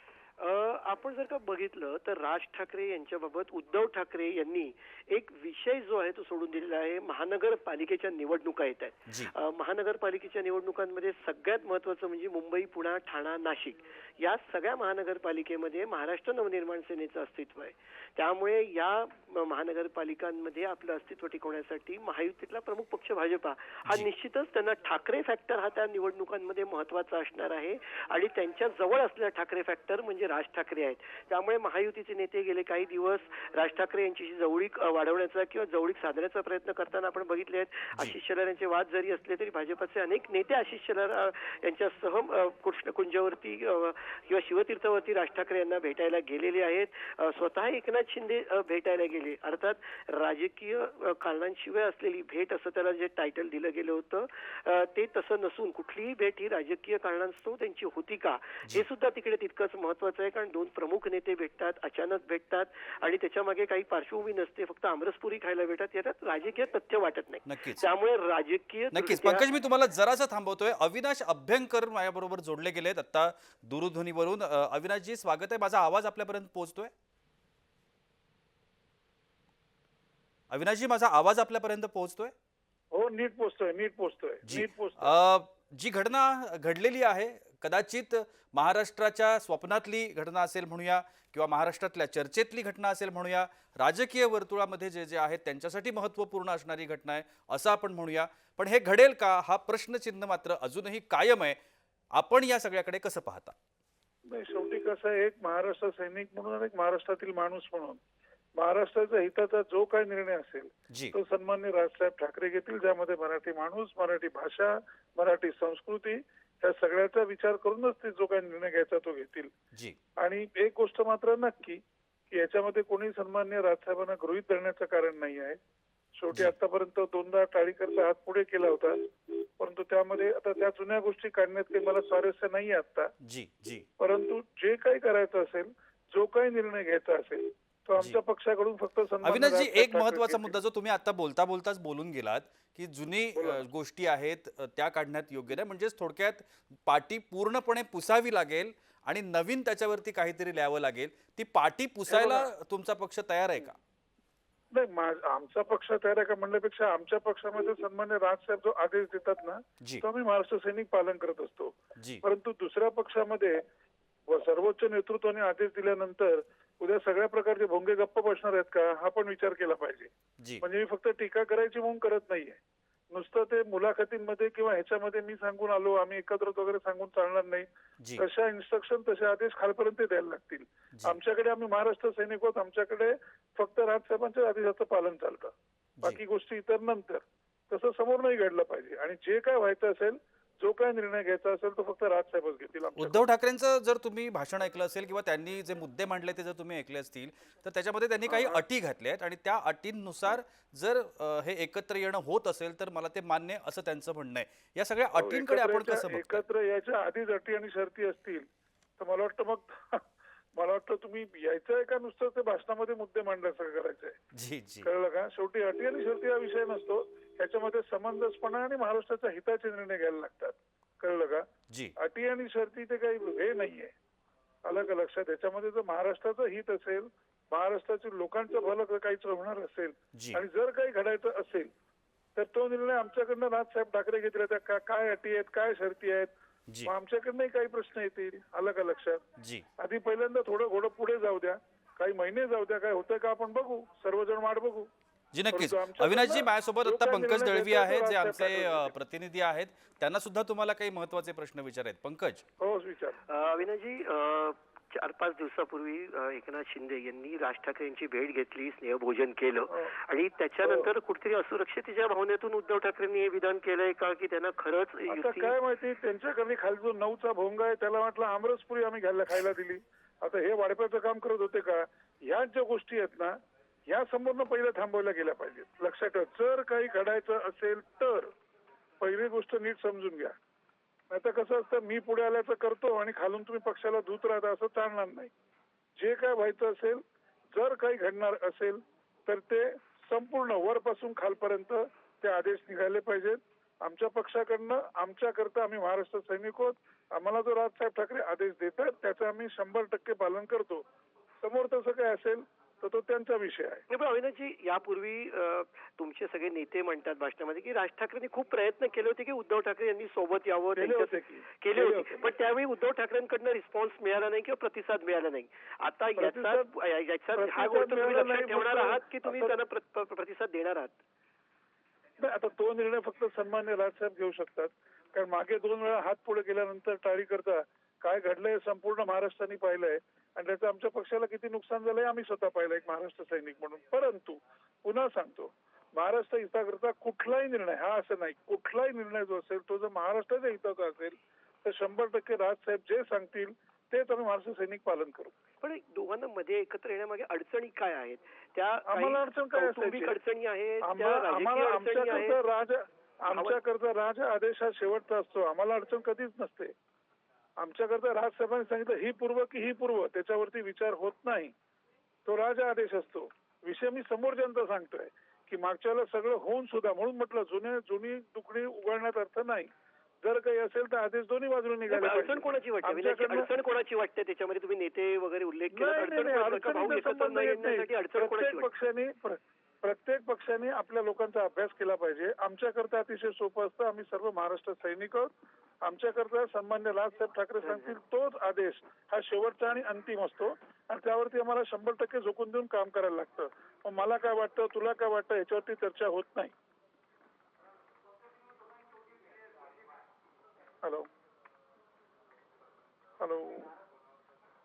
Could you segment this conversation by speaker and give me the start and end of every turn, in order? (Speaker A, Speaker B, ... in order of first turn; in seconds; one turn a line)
Speaker A: 0.4-69.5
Speaker B: 67.5-67.8
Speaker B: 68.9-76.9
Speaker B: 80.5-82.3
Speaker C: 82.9-85.2
Speaker B: 84.5-101.6
Speaker B: 102.1-103.6
Speaker C: 104.3-108.0
Speaker C: 108.6-119.5
Speaker C: 120.2-125.6
Speaker C: 126.2-133.1
Speaker B: 133.2-133.9
Speaker C: 134.0-140.6
Speaker B: 139.2-153.8
Speaker C: 143.4-143.7
Speaker C: 152.1-152.5
Speaker C: 154.7-163.6
Speaker C: 164.3-172.6
Speaker C: 173.1-177.7
Speaker C: 178.2-193.2
Speaker B: 193.0-206.4
Speaker C: 198.3-198.6
Speaker C: 205.1-208.5
Speaker C: 209.0-210.0
Speaker C: 210.6-214.2
Speaker B: 214.3-214.9
Speaker C: 214.8-221.4
Speaker C: 222.0-223.9
Speaker C: 224.7-231.7
Speaker B: 230.2-230.4
Speaker C: 232.4-236.3
Speaker C: 236.8-239.2
Speaker B: 239.4-239.7
Speaker C: 239.8-244.9
Speaker B: 245.3-252.4
Speaker C: 245.5-248.9
Speaker C: 252.6-253.2
Speaker A: 253.3-265.5
Speaker C: 259.7-259.9
Speaker C: 260.6-260.9
Speaker C: 265.1-273.4
Speaker C: 273.9-278.3
Speaker C: 279.0-280.4
Speaker C: 281.1-285.3
Speaker C: 286.0-287.0
Speaker C: 287.5-300.9
Speaker C: 301.4-303.9
Speaker A: 303.9-321.0
Speaker C: 310.8-312.3
Speaker C: 316.2-316.7
Speaker C: 317.4-319.6
Speaker C: 322.2-345.3
Speaker A: 345.6-352.4
Speaker C: 348.9-350.2
Speaker C: 350.8-356.7
Speaker A: 353.3-353.6
Speaker C: 357.6-361.5
Speaker C: 362.3-369.7
Speaker C: 370.2-373.5
Speaker A: 371.9-378.7
Speaker C: 375.7-385.3
Speaker C: 385.8-396.5
Speaker A: 387.6-388.0
Speaker C: 403.2-403.7